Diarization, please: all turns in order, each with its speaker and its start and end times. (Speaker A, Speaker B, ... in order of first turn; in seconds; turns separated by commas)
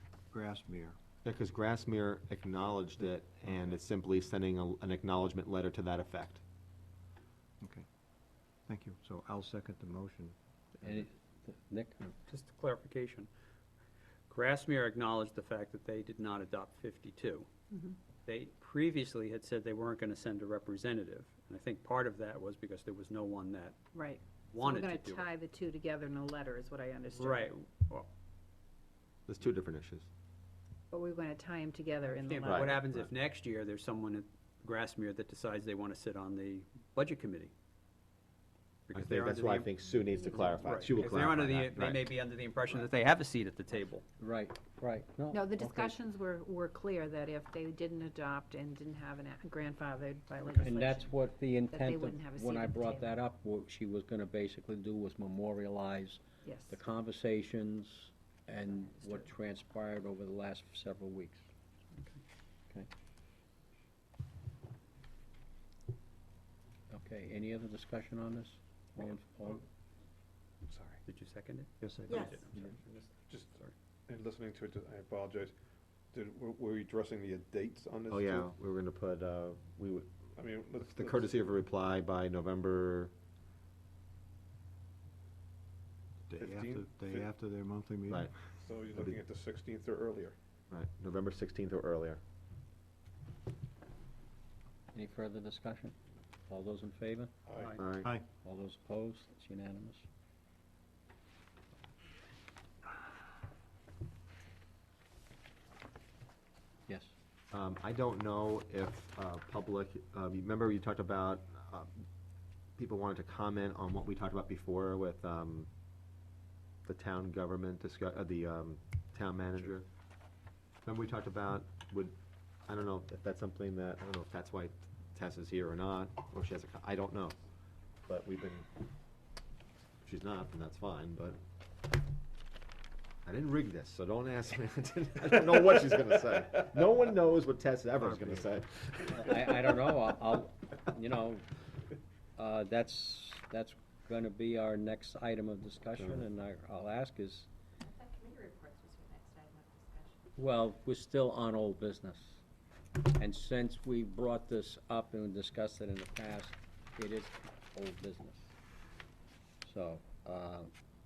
Speaker A: 0.3-1.0, Speaker B: 1.2-6.4, Speaker A: 7.6-7.9, Speaker A: 8.7-11.0, Speaker C: 10.8-12.2, Speaker D: 12.3-13.3, Speaker D: 14.3-17.5, Speaker E: 17.7-18.0, Speaker D: 18.3-23.8, Speaker E: 23.9-27.5, Speaker D: 24.5-25.3, Speaker D: 27.1-28.1, Speaker B: 29.3-30.1, Speaker E: 30.9-32.8, Speaker D: 32.1-37.5, Speaker B: 32.4-33.1, Speaker D: 38.9-39.7, Speaker B: 38.9-42.0, Speaker D: 40.3-44.1, Speaker C: 44.2-46.0, Speaker E: 45.3-51.1, Speaker C: 50.6-61.5, Speaker E: 51.7-53.2, Speaker E: 56.4-56.8, Speaker E: 58.7-59.2, Speaker D: 62.0-62.2, Speaker C: 66.9-69.6, Speaker F: 70.7-71.0, Speaker D: 71.0-73.7, Speaker A: 71.8-72.3, Speaker F: 73.3-73.5, Speaker F: 74.1-75.5, Speaker F: 76.1-78.5, Speaker B: 78.1-80.1, Speaker F: 80.4-81.4, Speaker B: 80.8-83.1, Speaker A: 86.3-88.5, Speaker F: 86.4-87.3, Speaker F: 88.6-90.4, Speaker B: 90.7-92.2, Speaker C: 94.9-96.0, Speaker C: 96.5-97.3, Speaker F: 97.5-97.8, Speaker B: 97.8-98.1, Speaker C: 98.4-100.1, Speaker C: 106.9-107.1, Speaker B: 107.5-111.9, Speaker B: 112.8-115.7, Speaker B: 116.9-119.9, Speaker B: 120.8-122.2, Speaker B: 122.7-127.3, Speaker B: 128.1-128.7, Speaker B: 130.0-131.4, Speaker B: 133.3-139.5, Speaker C: 139.1-141.5, Speaker C: 142.4-147.5, Speaker G: 148.1-150.1, Speaker C: 150.4-152.4, Speaker C: 153.2-158.5, Speaker C: 159.6-160.7